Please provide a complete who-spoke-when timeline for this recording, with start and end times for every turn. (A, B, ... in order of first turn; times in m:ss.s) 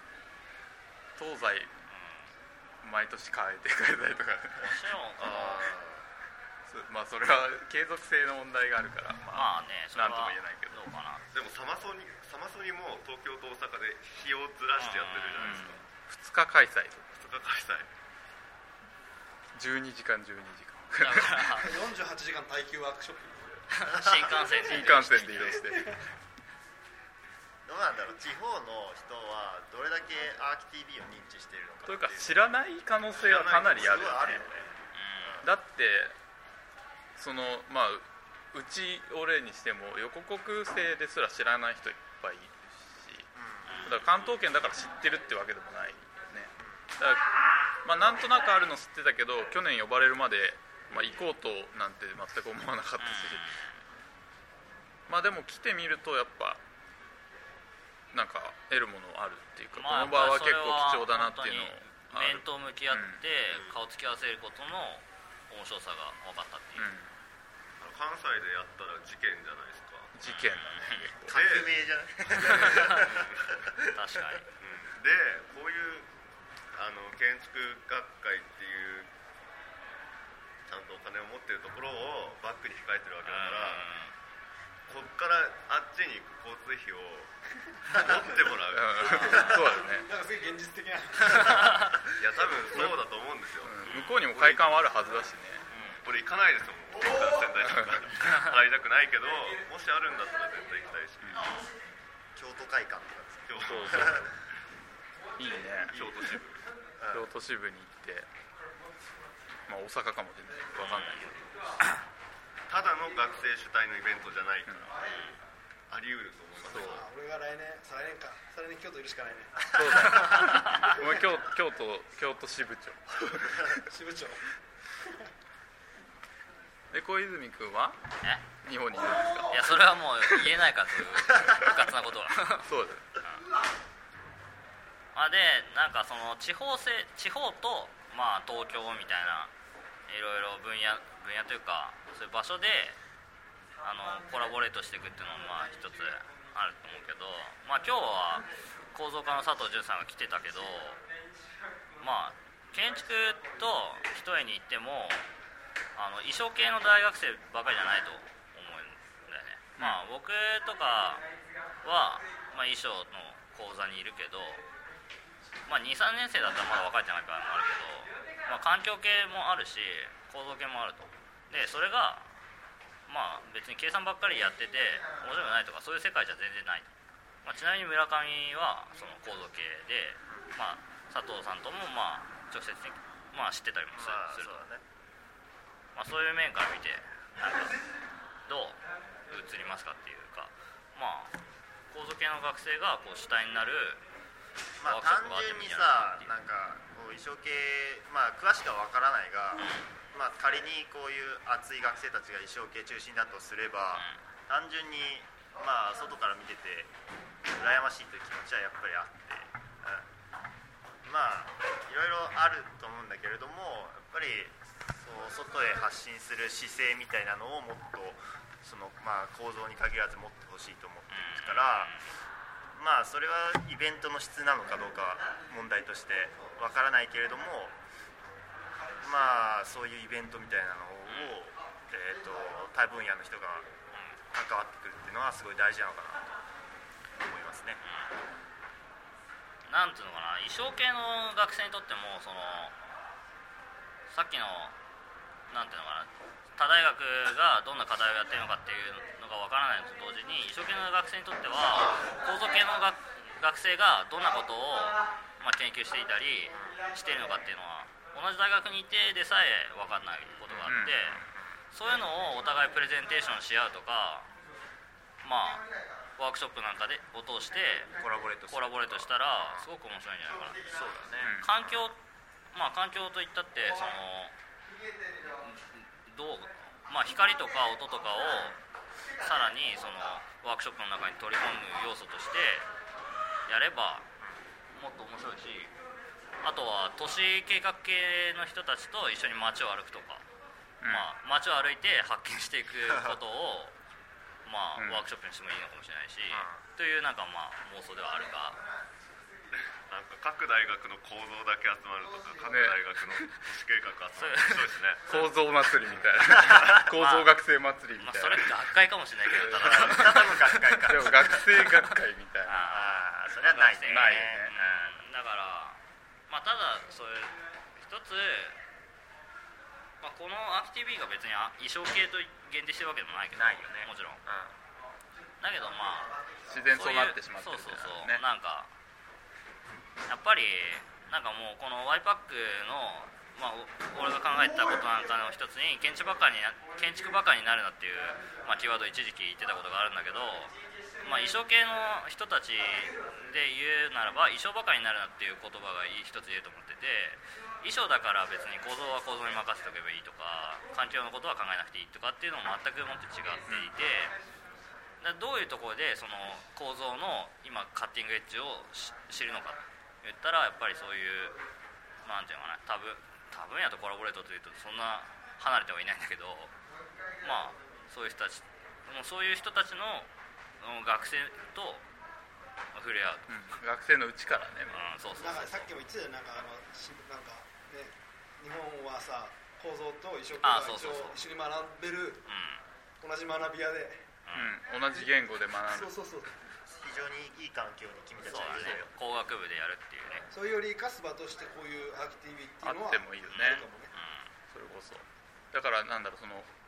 0:01.2-0:01.7 A
0:01.9-0:02.3 B
0:02.8-0:04.8 A
0:04.6-0:05.5 B
0:05.2-0:06.0 C
0:05.3-0:05.7 D
0:06.7-0:10.8 A
0:09.3-0:11.2 B
0:11.3-0:15.8 C
0:14.8-0:15.7 B
0:15.4-0:17.1 A
0:17.1-0:17.9 C
0:19.6-0:21.5 A
0:21.0-0:21.7 B
0:21.5-0:23.7 E
0:23.7-0:25.6 B
0:24.0-0:24.3 D
0:24.6-0:26.0 A
0:27.6-0:32.5 D
0:31.9-0:34.5 A
0:33.2-0:34.9 C
0:33.2-0:34.7 D
0:34.9-0:35.4 B
0:35.4-0:36.2 A
0:37.2-0:43.3 A
0:43.4-0:43.8 D
0:43.7-0:44.0 B
0:43.8-0:47.2 A
0:47.8-0:53.6 A
0:53.0-0:53.8 B
0:55.1-0:56.6 A
0:58.1-1:03.2 A
0:59.7-1:06.9 B
1:03.5-1:03.8 C
1:06.8-1:07.1 A
1:07.8-1:10.1 C
1:10.1-1:11.4 A
1:10.2-1:11.1 B
1:11.3-1:13.9 D
1:11.3-1:11.8 C
1:12.3-1:13.6 C
1:12.5-1:13.0 B
1:13.9-1:14.5 B
1:14.6-1:16.1 C
1:16.7-1:19.1 C
1:20.7-1:23.9 C
1:23.2-1:24.1 B
1:24.9-1:27.3 C
1:27.8-1:29.6 C
1:28.7-1:30.1 A
1:29.0-1:29.5 B
1:29.2-1:32.0 E
1:32.1-1:34.6 C
1:33.6-1:35.6 A
1:35.7-1:41.5 C
1:37.7-1:38.0 A
1:41.2-1:41.5 A
1:42.4-1:44.2 D
1:43.5-1:44.4 C
1:43.7-1:44.3 A
1:45.4-1:46.4 A
1:45.9-1:46.6 C
1:47.0-1:47.3 D
1:47.1-1:48.3 A
1:49.7-1:51.4 A
1:50.8-1:51.3 B
1:52.7-1:54.9 C
1:54.7-1:54.9 A
1:55.9-1:57.0 C
1:56.6-1:57.0 A
1:56.7-2:01.1 E
1:59.7-2:03.9 A
2:00.3-2:00.7 B
2:03.7-2:04.4 E
2:06.9-2:08.0 A
2:08.5-2:10.6 A
2:09.5-2:13.4 B
2:11.4-2:11.8 A
2:12.6-2:13.1 A
2:15.1-2:19.5 B
2:20.1-2:23.0 B
2:23.8-2:31.0 B
2:32.0-2:35.2 B
2:36.0-2:41.2 B
2:41.8-2:44.6 B
2:45.7-2:52.3 B
2:53.1-2:56.9 B
2:57.4-3:04.6 B
3:03.9-3:04.8 D
3:06.0-3:07.8 B
3:08.5-3:11.4 B
3:11.9-3:14.0 B
3:14.8-3:26.9 D
3:14.8-3:16.3 B
3:19.6-3:19.8 B
3:24.0-3:24.2 B
3:27.4-3:30.0 D
3:31.0-3:42.0 D
3:41.1-3:42.1 B
3:42.7-3:47.8 D
3:49.0-3:53.7 D
3:51.1-3:51.4 B
3:54.3-3:56.4 D
3:57.2-3:57.8 D
3:57.8-3:58.2 B
3:59.7-4:02.8 B
4:04.1-4:04.8 B
4:05.5-4:21.2 B
4:16.5-4:16.8 D
4:20.6-4:21.1 A
4:21.7-4:24.3 B
4:25.2-4:25.6 B
4:26.2-4:28.0 B
4:28.0-4:29.1 D
4:28.5-4:30.6 B
4:30.6-4:31.4 D
4:31.2-4:31.5 A
4:31.3-4:32.0 B
4:32.5-4:34.4 B
4:35.3-4:38.6 B
4:39.2-4:42.7 B
4:43.5-4:44.1 B
4:44.7-4:45.7 B
4:46.4-4:50.2 B
4:50.8-4:51.1 A
4:50.9-4:53.8 B
4:54.4-4:58.6 B
4:54.8-4:55.1 A
4:56.3-4:56.6 D
4:59.6-5:05.2 C
5:02.5-5:03.4 A
5:04.2-5:04.7 B
5:05.1-5:08.6 A
5:06.7-5:07.3 B
5:08.0-5:11.8 B
5:09.4-5:10.2 A
5:09.5-5:11.4 D
5:10.8-5:12.6 A
5:12.4-5:18.6 B
5:12.6-5:15.0 D
5:13.8-5:14.5 A
5:20.0-5:24.2 B
5:23.4-5:24.5 D
5:25.4-5:28.7 B
5:26.5-5:28.2 A
5:30.1-5:54.1 B
5:55.0-6:01.4 B
6:02.0-6:06.5 B
6:07.2-6:10.1 B
6:10.6-6:11.8 B
6:12.7-6:13.3 B
6:13.3-6:14.8 A
6:14.7-6:15.7 B
6:15.1-6:22.3 E
6:20.4-6:21.2 B
6:22.3-6:22.6 B
6:23.0-6:24.1 E
6:24.2-6:24.5 B
6:24.4-6:25.9 A
6:25.7-6:26.4 E
6:26.7-6:28.9 D
6:28.2-6:30.3 B
6:28.6-6:28.8 A
6:30.3-6:33.9 E
6:32.6-6:33.7 A
6:33.9-6:34.3 B
6:34.5-6:36.5 A